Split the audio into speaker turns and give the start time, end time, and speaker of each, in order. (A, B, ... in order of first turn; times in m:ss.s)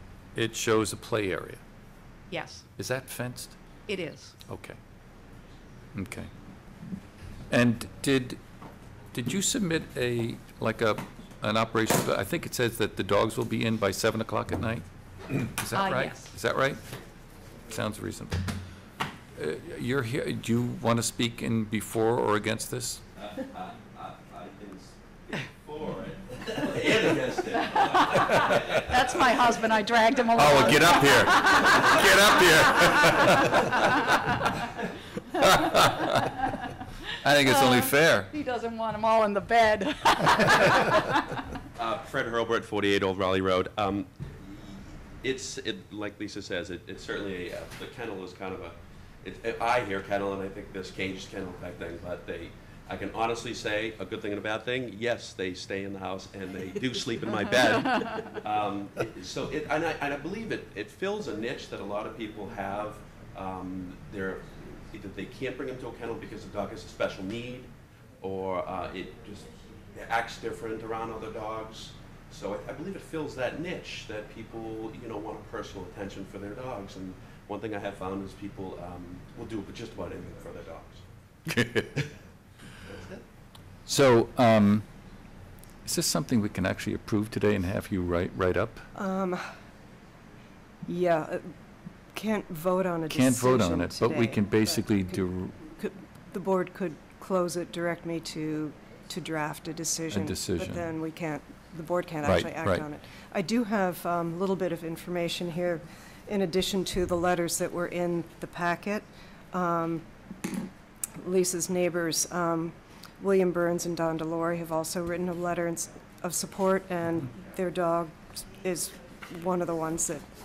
0:00.4-0:01.6 A
0:02.3-0:02.7 B
0:02.8-0:03.6 A
0:03.9-0:04.4 B
0:04.5-0:04.8 A
0:05.9-0:06.3 A
0:07.5-0:08.4 A
0:09.1-0:16.8 A
0:15.7-0:16.3 B
0:17.7-0:18.5 A
0:19.4-0:23.0 A
0:23.2-0:28.9 C
0:27.6-0:34.6 B
0:30.4-0:34.3 A
0:35.4-0:36.4 A
0:35.4-0:36.5 B
0:37.2-0:38.3 A
0:37.4-0:41.4 B
0:41.8-1:21.0 C
0:57.9-0:58.3 B
1:21.5-1:22.0 A
1:22.8-1:23.2 C
1:23.9-1:24.9 A
1:25.8-1:28.9 A
1:29.0-1:29.4 D
1:30.9-1:31.5 D
1:32.1-1:50.0 D
1:33.1-1:35.6 A
1:40.1-1:40.9 A
1:42.2-1:42.9 A
1:51.2-2:00.3 D